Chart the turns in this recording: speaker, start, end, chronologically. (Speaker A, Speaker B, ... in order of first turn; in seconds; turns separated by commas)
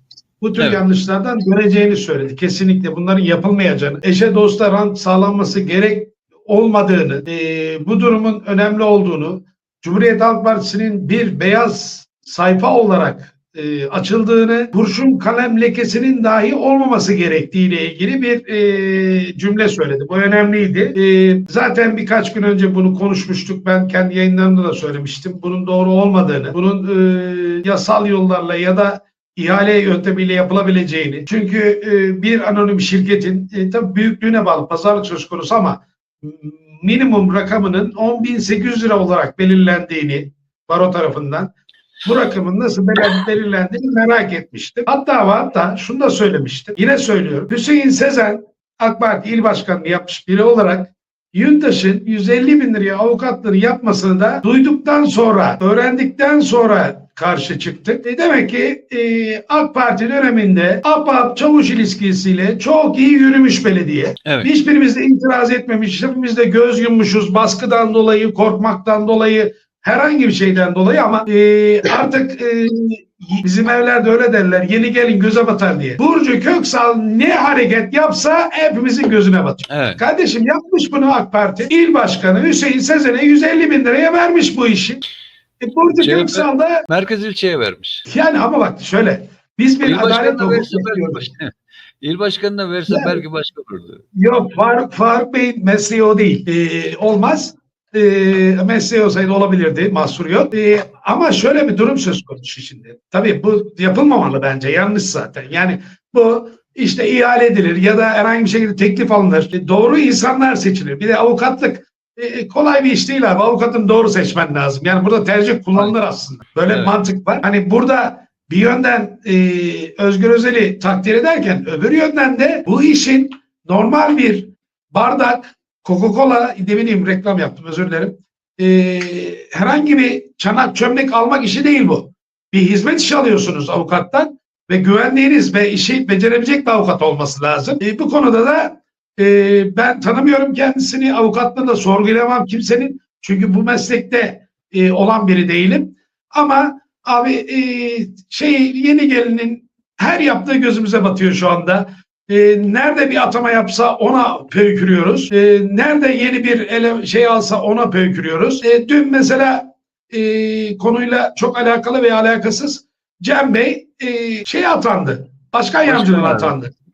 Speaker A: 0.4-41.5, Speaker B: 0.6-0.8, Speaker A: 42.0-85.0, Speaker B: 64.2-64.5, Speaker B: 79.7-80.0, Speaker A: 85.6-86.8, Speaker B: 86.0-88.0, Speaker A: 88.0-91.2, Speaker B: 89.8-94.0, Speaker A: 92.9-93.2, Speaker A: 94.1-166.7, Speaker B: 116.7-116.9, Speaker B: 165.8-166.6